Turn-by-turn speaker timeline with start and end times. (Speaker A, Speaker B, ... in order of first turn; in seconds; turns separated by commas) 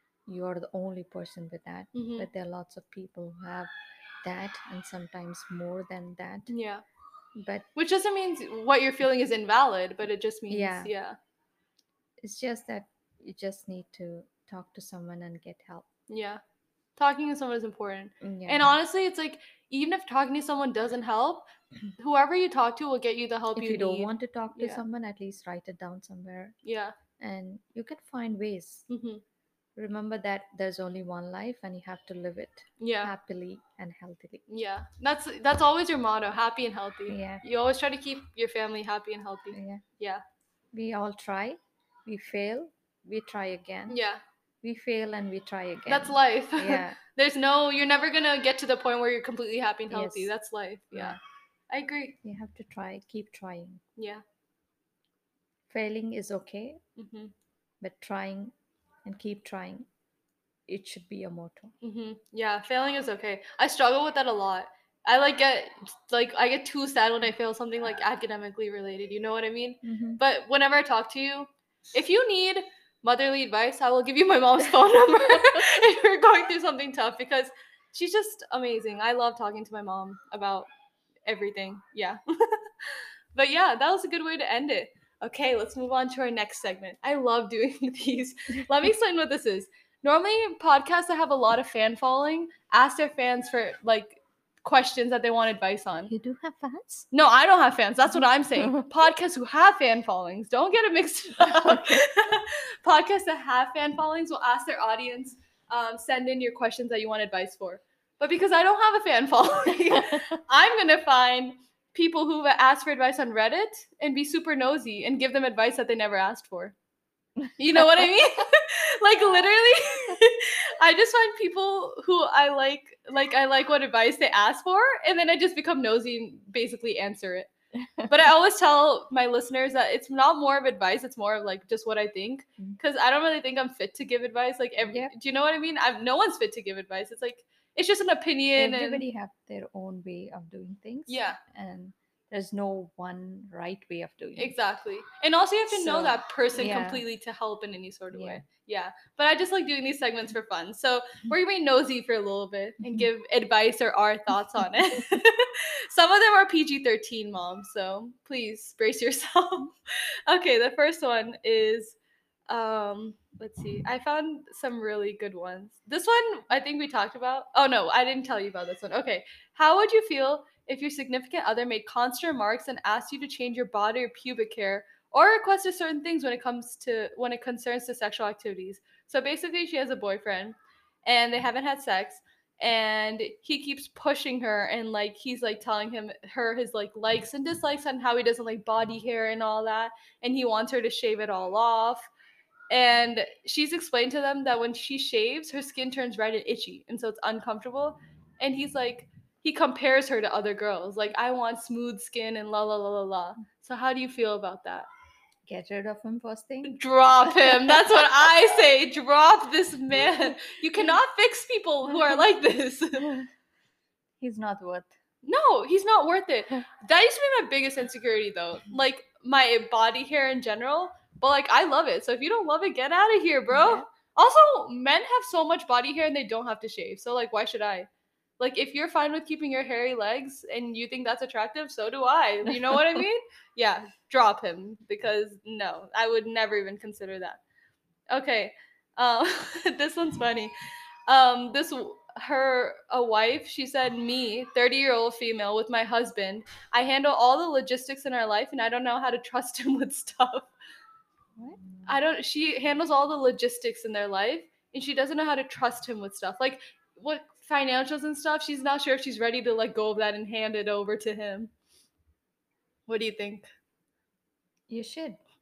Speaker A: 0.2-3.7, Speaker B: 1.9-2.3, Speaker A: 4.2-6.5, Speaker B: 6.5-6.8, Speaker A: 7.3-7.7, Speaker B: 7.7-11.2, Speaker A: 10.5-10.9, Speaker A: 12.2-15.9, Speaker B: 16.1-16.4, Speaker B: 17.0-24.8, Speaker A: 18.2-18.7, Speaker A: 23.5-26.6, Speaker B: 26.6-26.9, Speaker A: 27.2-28.9, Speaker B: 28.9-29.2, Speaker A: 29.8-34.4, Speaker B: 32.8-33.1, Speaker B: 34.5-40.2, Speaker A: 37.1-37.4, Speaker A: 39.5-39.8, Speaker A: 40.7-44.0, Speaker B: 43.9-44.2, Speaker A: 44.6-47.0, Speaker B: 45.9-51.2, Speaker A: 49.9-50.3, Speaker A: 50.9-51.2, Speaker B: 51.7-52.1, Speaker A: 52.2-53.8, Speaker B: 54.0-54.2, Speaker A: 55.7-56.8, Speaker B: 57.0-57.3, Speaker A: 57.8-58.5, Speaker A: 59.0-59.9, Speaker A: 60.7-61.7, Speaker B: 61.8-80.7, Speaker A: 69.8-70.2, Speaker B: 81.2-96.1, Speaker A: 96.1-97.1, Speaker B: 97.1-116.7, Speaker A: 101.5-102.0, Speaker B: 117.6-127.5, Speaker A: 127.8-128.1, Speaker B: 128.1-139.0, Speaker A: 134.8-135.1, Speaker A: 138.6-144.5, Speaker B: 141.1-141.4, Speaker B: 144.4-159.7, Speaker A: 145.7-147.0, Speaker A: 148.1-148.4, Speaker A: 152.8-153.1, Speaker B: 160.3-162.0, Speaker B: 162.5-192.1, Speaker B: 192.7-204.9, Speaker A: 205.4-208.2, Speaker B: 206.6-213.1, Speaker A: 213.0-213.3, Speaker A: 214.2-214.9, Speaker B: 215.2-237.4, Speaker A: 223.5-223.8, Speaker A: 232.7-233.0, Speaker B: 238.1-240.5, Speaker B: 241.1-250.5, Speaker A: 251.4-252.0, Speaker B: 251.8-261.5, Speaker B: 262.9-263.4, Speaker A: 264.7-265.2